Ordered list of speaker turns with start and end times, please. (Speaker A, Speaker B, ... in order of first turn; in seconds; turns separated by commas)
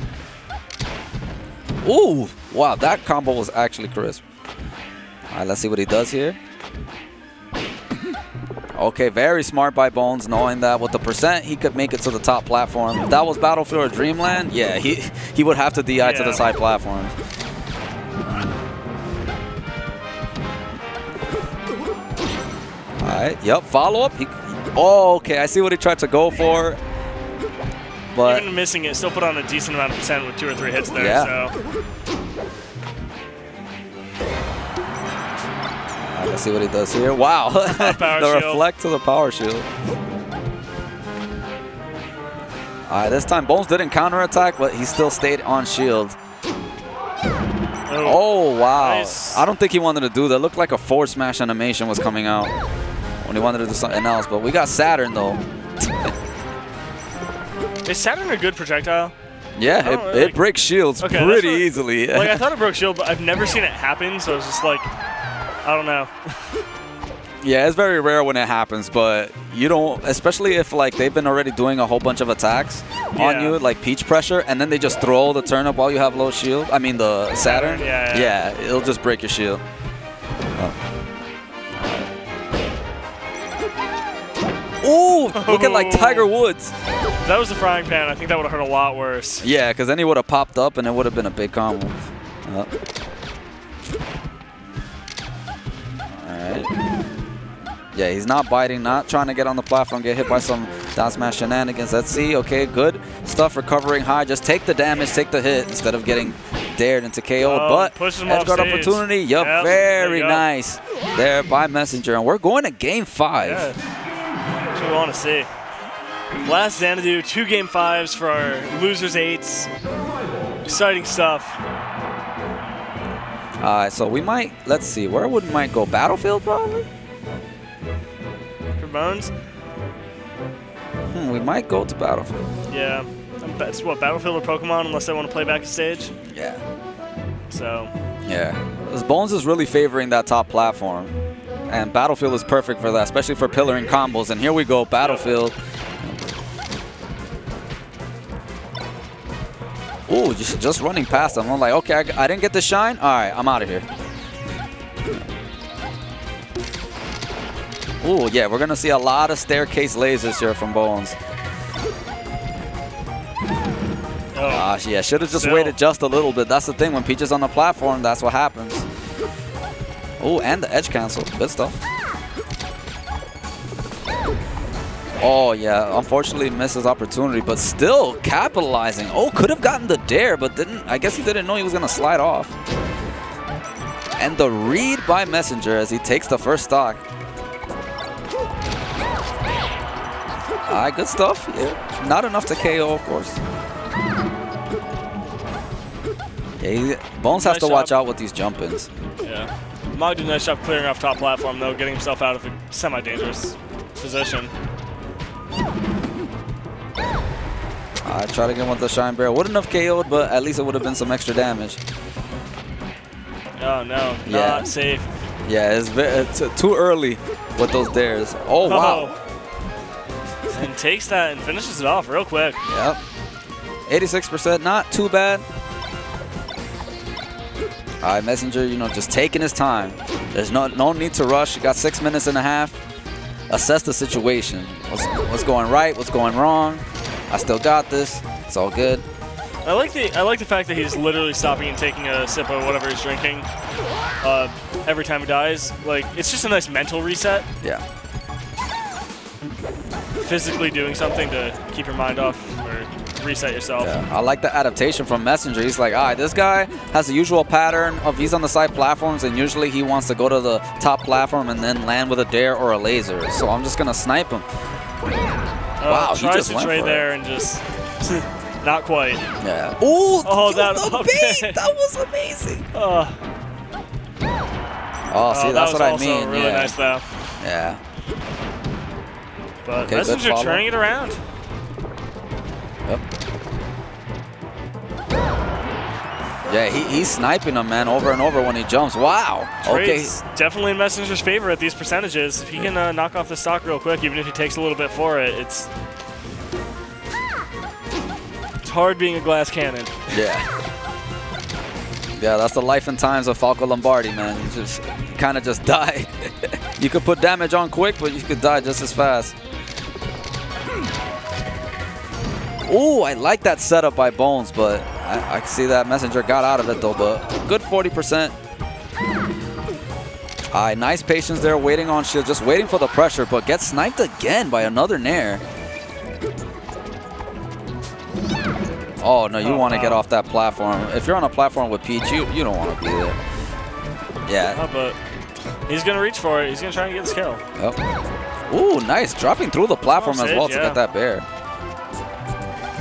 Speaker A: 1.8-4.2, Speaker A: 5.3-6.4, Speaker A: 8.8-17.1, Speaker B: 16.0-16.4, Speaker A: 18.2-18.5, Speaker A: 23.0-26.8, Speaker A: 28.1-28.5, Speaker B: 28.2-31.5, Speaker A: 30.9-31.3, Speaker A: 36.1-39.7, Speaker B: 37.6-38.6, Speaker A: 42.9-46.2, Speaker B: 47.9-49.4, Speaker A: 48.0-52.5, Speaker A: 53.2-56.1, Speaker B: 57.8-59.1, Speaker A: 59.6-62.4, Speaker B: 59.8-60.4, Speaker B: 61.0-64.9, Speaker B: 65.6-66.6, Speaker A: 67.4-79.6, Speaker B: 73.2-73.6, Speaker B: 77.4-78.4, Speaker A: 81.7-82.1, Speaker A: 84.8-86.7, Speaker B: 85.3-86.3, Speaker B: 87.2-89.5, Speaker A: 89.4-92.7, Speaker A: 96.1-96.7, Speaker A: 97.9-113.7, Speaker B: 107.4-110.4, Speaker B: 113.4-113.8, Speaker B: 114.7-115.5, Speaker B: 116.4-119.7, Speaker B: 120.6-121.6, Speaker A: 123.6-126.9, Speaker B: 128.8-129.3, Speaker A: 131.1-132.4, Speaker B: 132.7-136.1, Speaker A: 136.3-136.6, Speaker B: 137.5-137.9, Speaker A: 138.2-141.1, Speaker A: 141.7-146.2, Speaker B: 145.0-145.3, Speaker A: 150.1-153.9, Speaker A: 158.0-161.2, Speaker B: 164.3-165.8, Speaker A: 164.5-168.9, Speaker A: 170.2-171.8, Speaker A: 175.2-182.5, Speaker A: 184.2-187.0, Speaker A: 190.7-193.4, Speaker A: 196.6-198.9, Speaker B: 197.3-197.9, Speaker B: 199.2-204.5, Speaker A: 208.0-211.8, Speaker B: 213.6-215.1, Speaker A: 214.2-214.7, Speaker A: 215.4-219.1, Speaker B: 218.6-219.2, Speaker B: 220.5-222.6, Speaker A: 222.7-223.0, Speaker A: 223.9-225.4, Speaker A: 228.0-232.8, Speaker A: 233.5-239.0, Speaker B: 239.6-243.5, Speaker B: 244.2-247.5, Speaker B: 250.2-253.9, Speaker A: 253.8-264.5, Speaker B: 265.8-269.3, Speaker A: 265.8-267.1, Speaker A: 269.4-272.7, Speaker B: 270.2-271.6, Speaker B: 272.7-273.2, Speaker A: 275.1-276.8, Speaker B: 275.3-277.1, Speaker A: 277.4-277.8, Speaker B: 279.6-281.2, Speaker A: 279.8-280.6, Speaker A: 286.4-290.1, Speaker B: 289.6-295.7, Speaker B: 298.6-300.1, Speaker A: 300.1-300.5, Speaker A: 302.2-309.3, Speaker A: 312.6-318.3, Speaker A: 320.5-325.4, Speaker A: 329.0-333.2, Speaker B: 329.4-330.0, Speaker A: 334.3-334.6, Speaker B: 334.5-335.0, Speaker B: 335.7-337.4, Speaker A: 338.5-341.2, Speaker B: 339.9-340.8